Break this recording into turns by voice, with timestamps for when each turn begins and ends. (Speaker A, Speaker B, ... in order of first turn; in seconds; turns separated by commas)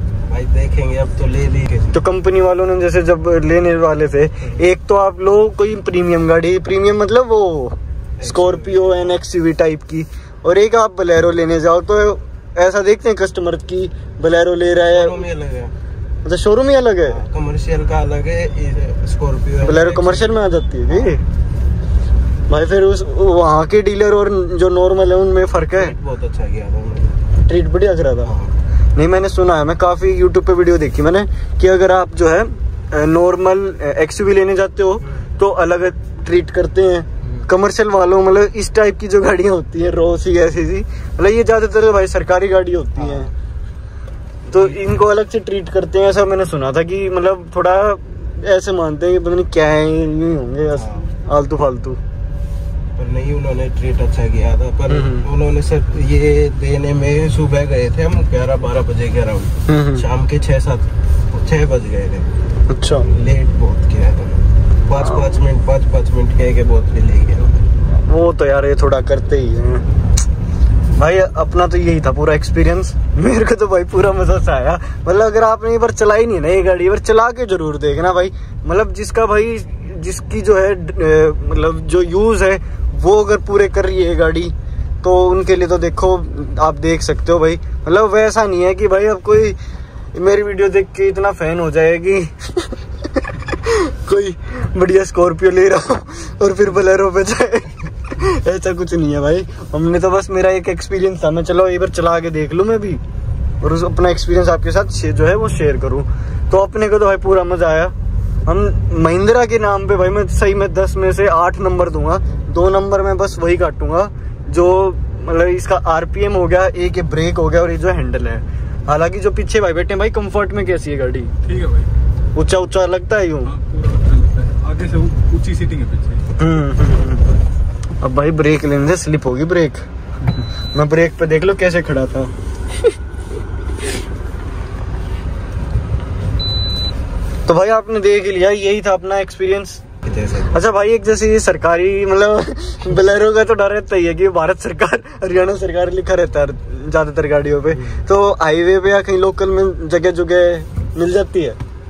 Speaker A: 0.3-2.0, Speaker B: 1.9-15.2, Speaker A: 8.2-9.2, Speaker A: 14.8-15.7, Speaker B: 16.2-17.2, Speaker A: 17.1-21.2, Speaker B: 19.6-21.2, Speaker B: 22.5-25.9, Speaker A: 25.7-27.2, Speaker B: 27.4-28.3, Speaker A: 28.2-28.6, Speaker B: 29.0-43.3, Speaker A: 37.2-37.5, Speaker A: 43.0-43.3, Speaker B: 44.5-52.0, Speaker A: 44.5-45.1, Speaker A: 50.7-51.1, Speaker A: 53.0-62.4, Speaker B: 54.9-55.3, Speaker B: 59.7-60.0, Speaker B: 62.7-63.1, Speaker A: 63.0-67.6, Speaker B: 67.9-69.9, Speaker B: 71.0-89.6, Speaker B: 90.1-103.0, Speaker B: 103.6-107.9, Speaker B: 108.5-121.3, Speaker C: 121.4-121.9, Speaker B: 122.3-123.6, Speaker C: 123.5-126.3, Speaker B: 126.4-127.3, Speaker B: 128.0-129.9, Speaker B: 130.7-132.3, Speaker B: 137.5-139.8, Speaker A: 140.0-140.6, Speaker B: 140.5-151.6, Speaker A: 147.7-148.0